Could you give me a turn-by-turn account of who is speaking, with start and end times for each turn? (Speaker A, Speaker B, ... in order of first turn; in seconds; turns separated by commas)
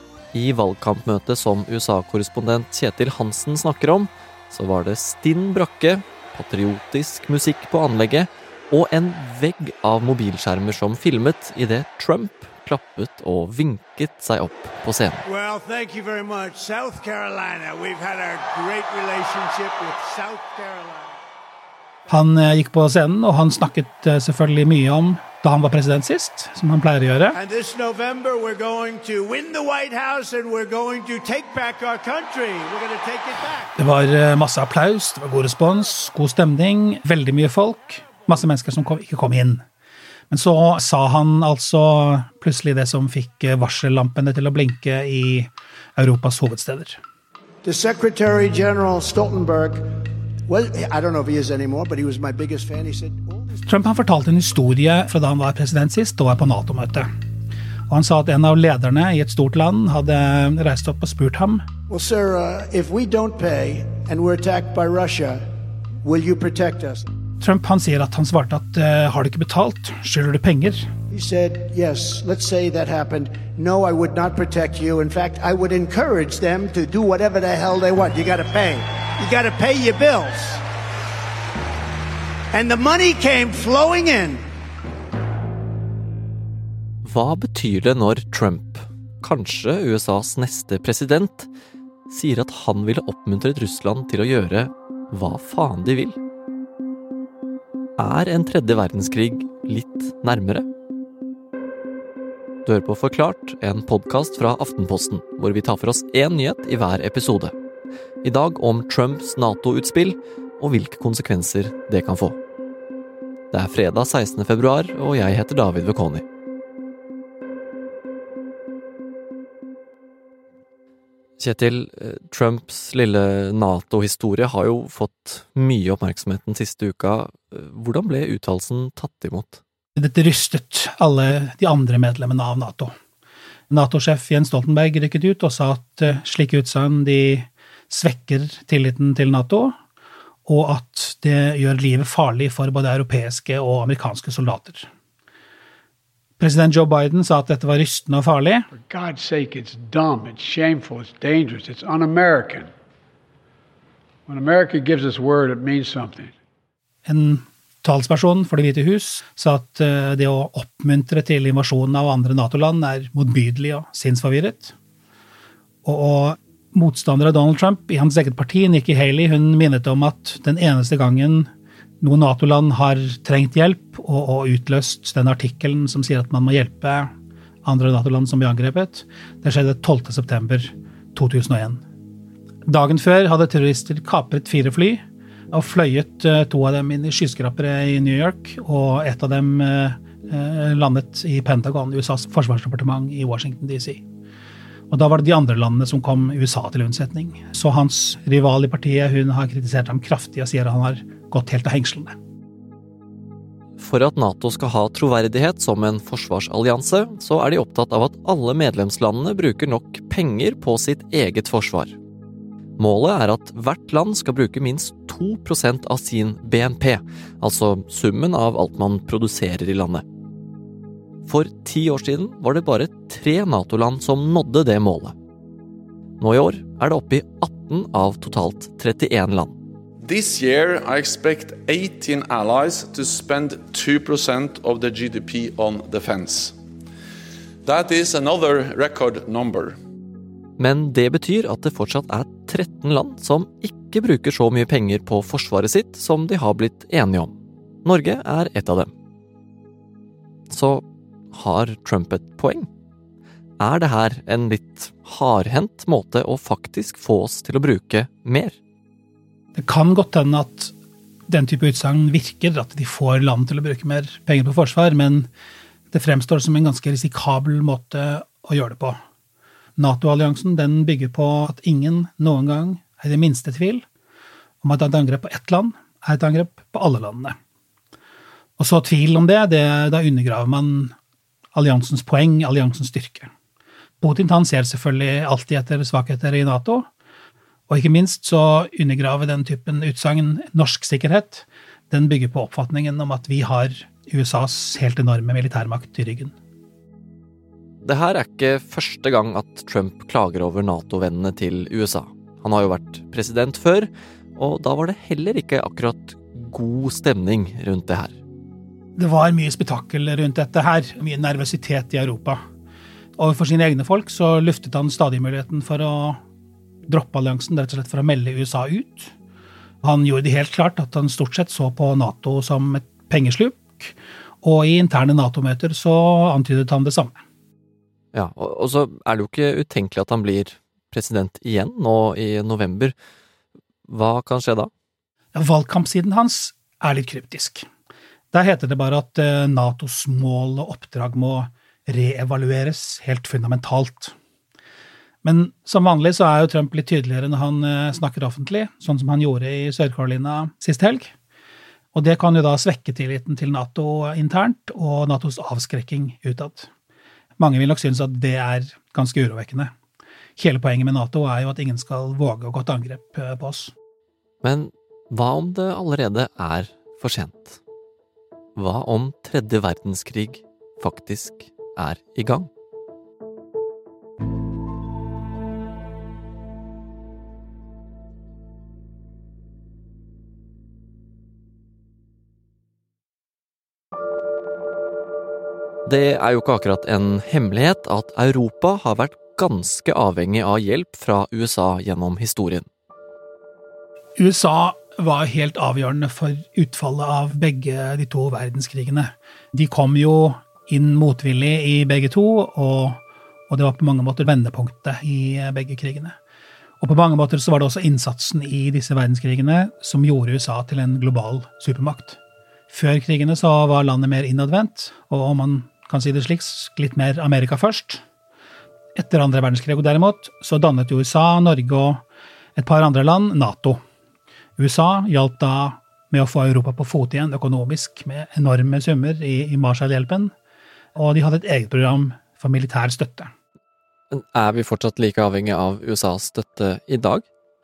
Speaker A: 0.3-15.2, Speaker B: 15.2-21.1, Speaker C: 22.1-27.4, Speaker B: 27.3-33.7, Speaker C: 33.8-39.6, Speaker C: 40.3-47.0, Speaker B: 47.6-49.9, Speaker B: 50.5-53.5, Speaker C: 53.6-57.1, Speaker C: 57.9-61.6, Speaker B: 61.9-65.4, Speaker B: 66.0-67.1, Speaker C: 67.4-70.8, Speaker B: 71.1-80.6, Speaker B: 82.5-84.4, Speaker A: 87.0-91.5, Speaker A: 92.1-96.2, Speaker A: 98.0-100.7, Speaker A: 102.7-107.5, Speaker A: 108.2-112.4, Speaker A: 113.5-116.2, Speaker A: 121.4-129.6, Speaker C: 129.9-132.9, Speaker C: 133.7-139.8, Speaker C: 140.4-144.9, Speaker C: 146.4-148.7, Speaker D: 148.8-152.7, Speaker D: 154.3-156.3, Speaker C: 157.1-164.8, Speaker C: 165.8-171.5, Speaker C: 172.0-177.1, Speaker C: 177.6-181.8, Speaker C: 182.7-194.1, Speaker C: 194.9-202.2, Speaker A: 203.8-212.0, Speaker A: 212.8-220.1, Speaker A: 221.2-225.2, Speaker A: 226.2-229.6, Speaker E: 230.0-236.6, Speaker E: 237.7-239.8, Speaker A: 240.6-248.9, Speaker A: 250.5-252.7, Speaker A: 253.6-258.6, Speaker C: 259.5-260.7, Speaker C: 261.3-265.3, Speaker C: 265.9-269.0, Speaker C: 269.8-273.8, Speaker C: 274.6-277.3, Speaker C: 278.6-280.9, Speaker C: 281.5-283.3, Speaker C: 284.0-286.9, Speaker C: 287.7-296.3, Speaker A: 297.8-308.2, Speaker C: 308.9-312.4, Speaker C: 313.2-316.2, Speaker C: 316.9-319.1, Speaker C: 319.8-327.2, Speaker A: 328.1-332.9, Speaker A: 333.9-334.7, Speaker C: 335.3-337.6, Speaker C: 338.3-344.1, Speaker C: 345.2-351.1, Speaker C: 351.9-356.7, Speaker C: 357.4-359.7, Speaker C: 360.4-363.7, Speaker A: 364.4-367.6, Speaker A: 368.6-372.5, Speaker A: 385.9-392.6, Speaker C: 394.2-406.2, Speaker C: 406.8-418.0, Speaker C: 418.9-422.0, Speaker C: 422.6-423.8, Speaker C: 424.6-430.3, Speaker C: 430.9-433.3, Speaker A: 434.1-437.2